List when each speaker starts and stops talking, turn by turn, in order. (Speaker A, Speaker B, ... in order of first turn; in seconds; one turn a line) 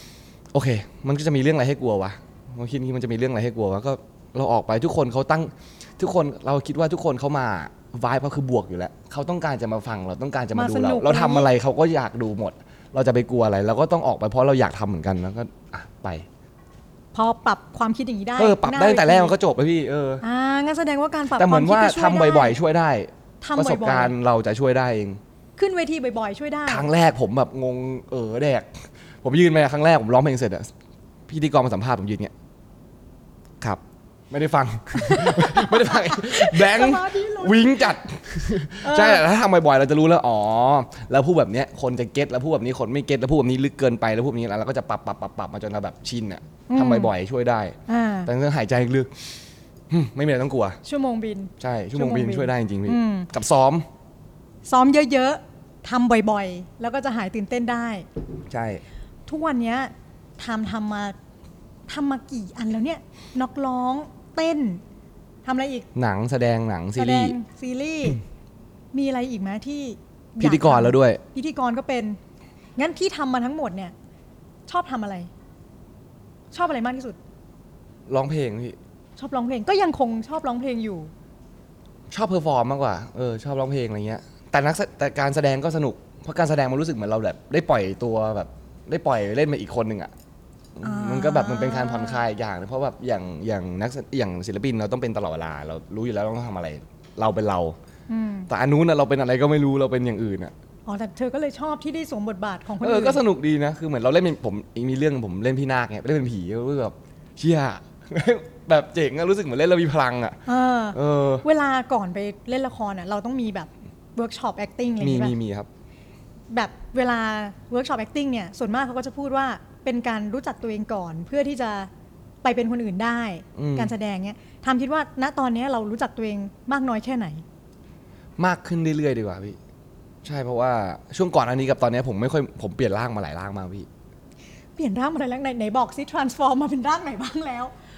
Speaker A: 0.5-16.2
Speaker B: 10.5-11.5
Speaker B: 17.1-19.3
Speaker A: 18.4-20.2
Speaker B: 20.2-22.6
Speaker A: 21.3-25.2
Speaker B: 23.4-24.1
Speaker B: 25.6-26.9
Speaker A: 26.7-30.7
Speaker A: 31.3-32.3
Speaker A: 33.6-49.1
Speaker B: 35.0-37.9
Speaker B: 38.8-39.2
Speaker B: 46.7-47.1
Speaker B: 47.9-48.3
Speaker A: 49.9-50.8
Speaker B: 50.8-53.3
Speaker A: 51.6-53.9
Speaker B: 54.6-58.0
Speaker A: 58.5-58.8
Speaker B: 59.3-61.1
Speaker B: 61.9-64.8
Speaker B: 65.5-65.9
Speaker A: 65.9-67.3
Speaker B: 67.0-68.2
Speaker B: 68.9-72.2
Speaker A: 70.4-71.2
Speaker B: 72.8-73.9
Speaker B: 74.7-75.3
Speaker B: 76.5-77.2
Speaker A: 78.1-78.8
Speaker B: 79.2-81.1
Speaker A: 82.1-90.1
Speaker A: 90.8-97.8
Speaker B: 90.8-92.2
Speaker B: 98.1-98.5
Speaker A: 98.5-100.5
Speaker B: 100.8-103.2
Speaker A: 102.8-110.4
Speaker B: 110.5-115.3
Speaker A: 110.9-111.4
Speaker A: 115.0-115.7
Speaker B: 116.5-121.9
Speaker B: 122.4-127.4
Speaker A: 123.5-123.9
Speaker A: 128.4-129.6
Speaker A: 130.2-133.9
Speaker B: 134.8-137.7